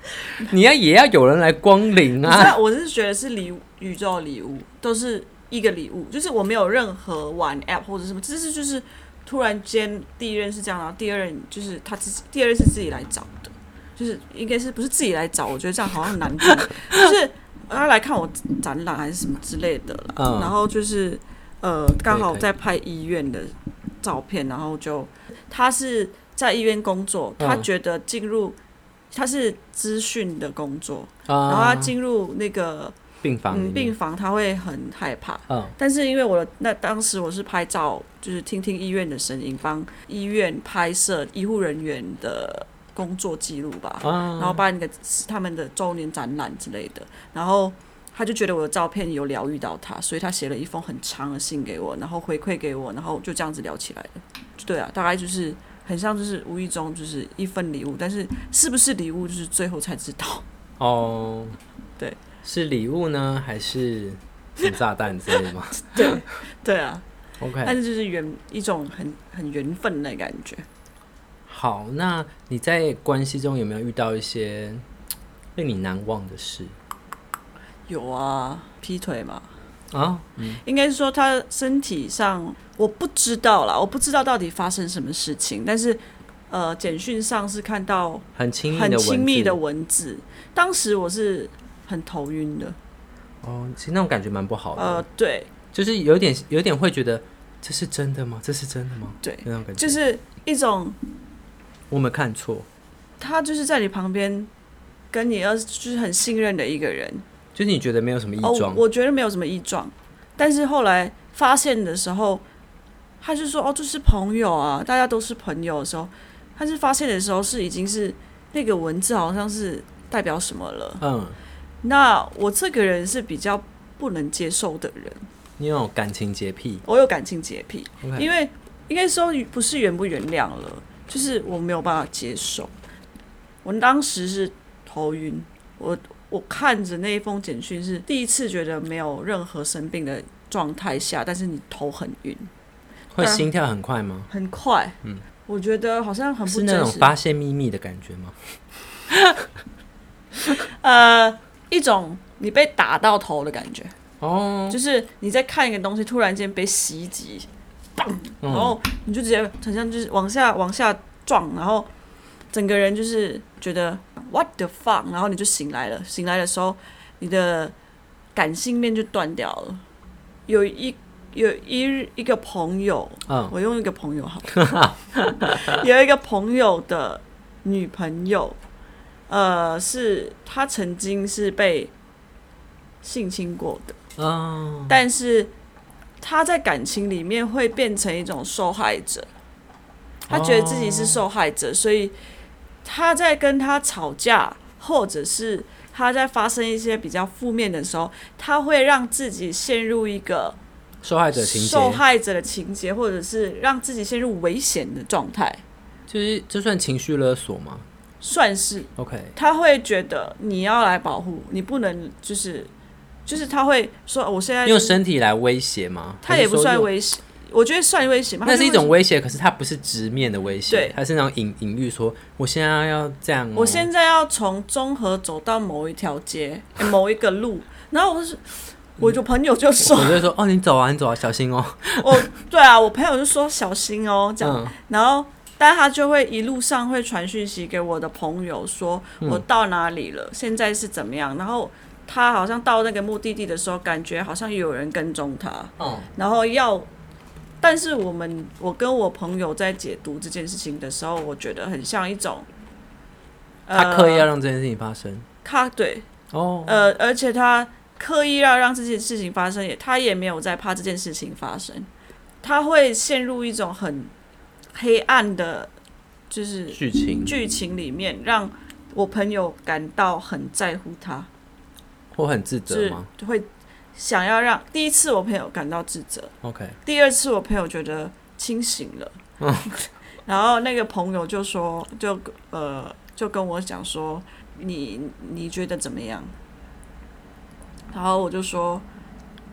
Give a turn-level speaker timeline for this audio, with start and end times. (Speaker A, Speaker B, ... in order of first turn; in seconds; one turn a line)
Speaker A: 0.3-2.6
Speaker B: 2.2-28.6
Speaker A: 20.2-20.5
Speaker A: 22.1-22.4
Speaker A: 27.4-27.7
Speaker B: 29.1-33.0
Speaker A: 31.3-31.9
Speaker A: 33.2-33.9
Speaker B: 33.5-60.5
Speaker A: 44.0-44.6
Speaker A: 60.8-61.6
Speaker A: 62.4-66.2
Speaker B: 65.3-67.0
Speaker A: 67.4-67.8
Speaker B: 67.6-70.7
Speaker A: 71.5-74.8
Speaker A: 75.6-76.8
Speaker B: 77.9-79.5
Speaker A: 79.9-80.6
Speaker B: 80.6-92.8
Speaker A: 88.4-89.6
Speaker A: 93.4-95.0
Speaker B: 94.8-95.5
Speaker A: 95.7-99.9
Speaker B: 99.2-101.0
Speaker A: 101.9-102.7
Speaker B: 103.2-104.5
Speaker B: 105.1-107.2
Speaker A: 107.5-108.8
Speaker B: 108.4-112.4
Speaker B: 113.2-121.0
Speaker A: 121.0-121.4
Speaker B: 121.8-125.2
Speaker A: 125.6-126.8
Speaker B: 126.8-132.7
Speaker A: 128.0-128.3
Speaker B: 133.6-142.5
Speaker A: 143.1-144.3
Speaker B: 143.2-143.5
Speaker B: 144.3-147.1
Speaker A: 146.5-148.4
Speaker A: 149.1-149.5
Speaker B: 150.5-153.9
Speaker A: 154.2-154.8
Speaker B: 154.7-161.9
Speaker A: 158.4-158.8
Speaker B: 162.5-167.7
Speaker B: 168.3-169.8
Speaker B: 170.5-174.6
Speaker A: 173.3-173.5
Speaker A: 174.5-175.8
Speaker B: 175.4-178.6
Speaker B: 179.3-181.9
Speaker B: 183.0-184.0
Speaker A: 184.2-185.0
Speaker B: 184.9-185.5
Speaker B: 186.2-189.3
Speaker A: 190.3-191.2
Speaker B: 190.3-192.2
Speaker B: 192.8-200.6
Speaker A: 201.0-202.0
Speaker B: 201.3-205.6
Speaker A: 206.1-207.9
Speaker B: 208.2-212.7
Speaker A: 209.0-209.3
Speaker B: 213.3-215.0
Speaker A: 214.7-216.9
Speaker B: 216.2-218.9
Speaker A: 218.4-223.9
Speaker B: 220.7-221.0
Speaker B: 223.6-230.3
Speaker A: 229.8-232.2
Speaker B: 232.0-246.9
Speaker A: 234.4-234.7
Speaker A: 245.8-246.1
Speaker B: 247.6-252.5
Speaker B: 253.7-254.3
Speaker A: 253.7-255.3
Speaker B: 255.4-256.1
Speaker A: 256.3-256.8
Speaker B: 256.7-261.9
Speaker B: 262.4-264.1
Speaker B: 264.7-265.7
Speaker B: 266.3-271.3
Speaker A: 266.7-267.3
Speaker A: 272.1-273.1
Speaker B: 272.7-276.3
Speaker A: 276.4-276.8
Speaker B: 276.9-279.2
Speaker A: 279.4-279.7
Speaker B: 279.7-286.3
Speaker B: 287.9-288.9